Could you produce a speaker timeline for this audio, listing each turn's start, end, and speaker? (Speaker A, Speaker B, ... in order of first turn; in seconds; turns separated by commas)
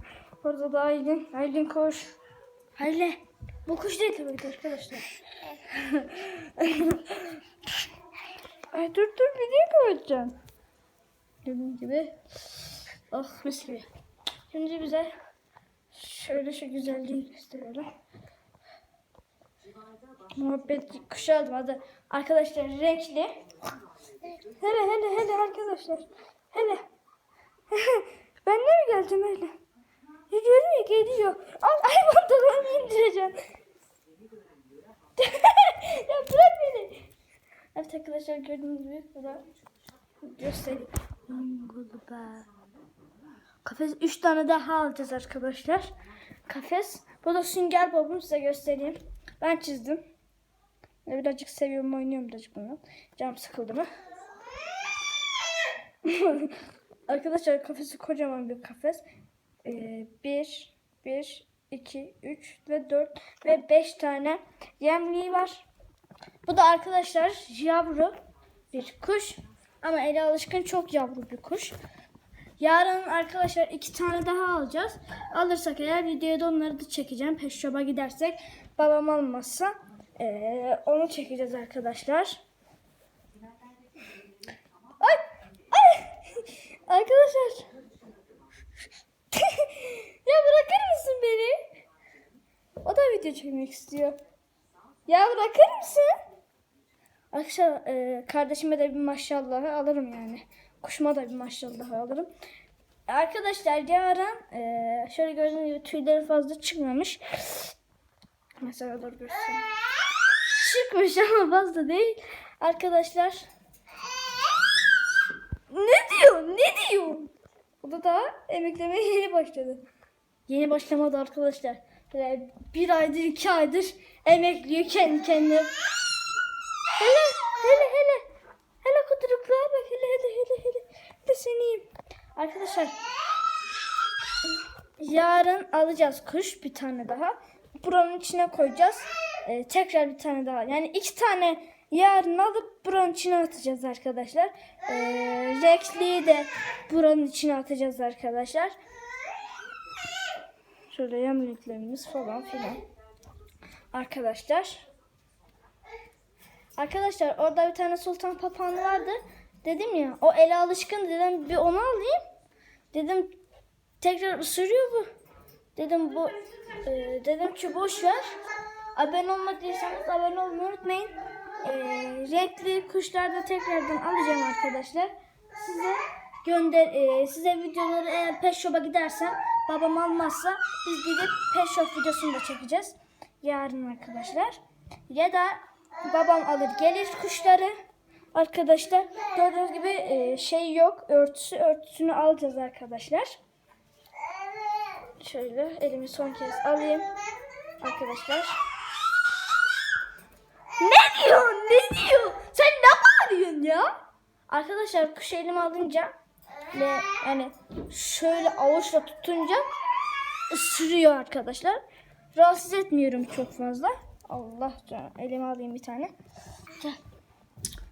Speaker A: 0.4-2.1, Speaker A: 2.8-7.4, Speaker A: 8.7-10.4, Speaker A: 11.4-12.2, Speaker A: 13.1-13.9, Speaker A: 14.5-15.1, Speaker A: 15.9-17.9, Speaker A: 20.3-23.4, Speaker A: 24.3-26.8, Speaker A: 27.7-29.6, Speaker A: 30.3-33.4, Speaker A: 35.2-37.1, Speaker A: 37.8-39.5, Speaker A: 40.2-42.5, Speaker A: 43.6-45.9, Speaker A: 46.5-50.0, Speaker A: 51.1-53.9, Speaker A: 56.0-56.6, Speaker A: 57.1-59.0, Speaker A: 59.6-65.7, Speaker A: 66.5-68.2, Speaker A: 68.7-71.8, Speaker A: 72.6-82.4, Speaker A: 85.0-87.7, Speaker A: 89.3-91.6, Speaker A: 92.8-94.2, Speaker A: 95.1-96.1, Speaker A: 97.3-102.3, Speaker A: 103.1-107.7, Speaker A: 108.6-109.6, Speaker A: 110.5-113.5, Speaker A: 115.7-117.3, Speaker A: 117.8-119.8, Speaker A: 120.5-125.7, Speaker A: 127.0-128.2, Speaker A: 128.8-132.9, Speaker A: 135.0-148.8, Speaker A: 150.9-152.8, Speaker A: 153.9-154.9, Speaker A: 156.8-162.2, Speaker A: 162.9-163.4, Speaker A: 164.0-165.1, Speaker A: 165.8-168.3, Speaker A: 168.9-187.7, Speaker A: 188.3-193.4, Speaker A: 195.2-197.1, Speaker A: 197.8-198.6, Speaker A: 200.8-206.1, Speaker A: 206.7-209.7, Speaker A: 210.5-211.8, Speaker A: 212.3-216.1